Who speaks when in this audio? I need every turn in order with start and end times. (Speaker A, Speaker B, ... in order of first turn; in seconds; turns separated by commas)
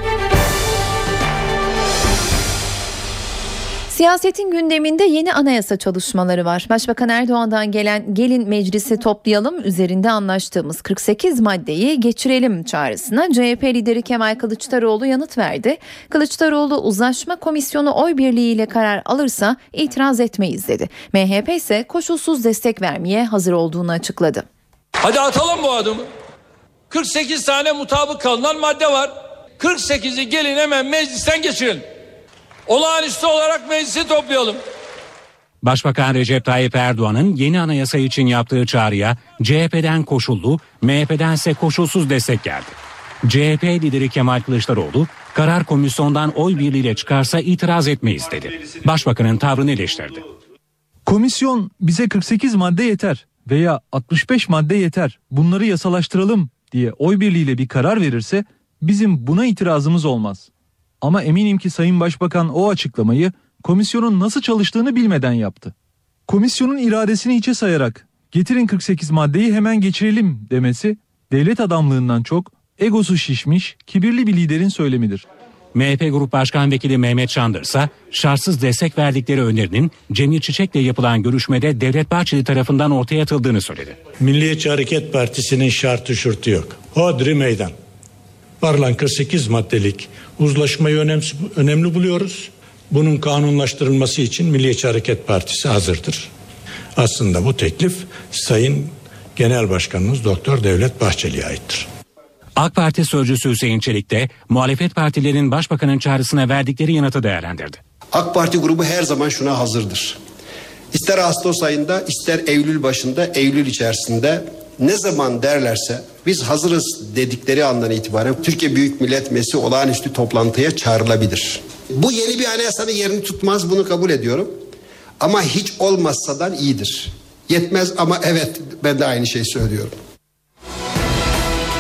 Speaker A: 3.9-24.5, Speaker B: 25.0-26.1, Speaker B: 26.9-31.9, Speaker B: 32.7-34.6, Speaker C: 35.6-50.2, Speaker D: 51.0-60.5, Speaker D: 61.0-65.7, Speaker D: 66.3-75.2, Speaker C: 75.8-84.0, Speaker E: 84.2-87.8, Speaker E: 88.6-96.3, Speaker E: 97.0-101.9, Speaker C: 102.6-107.8, Speaker F: 108.1-110.2, Speaker F: 110.9-124.5, Speaker F: 125.2-129.9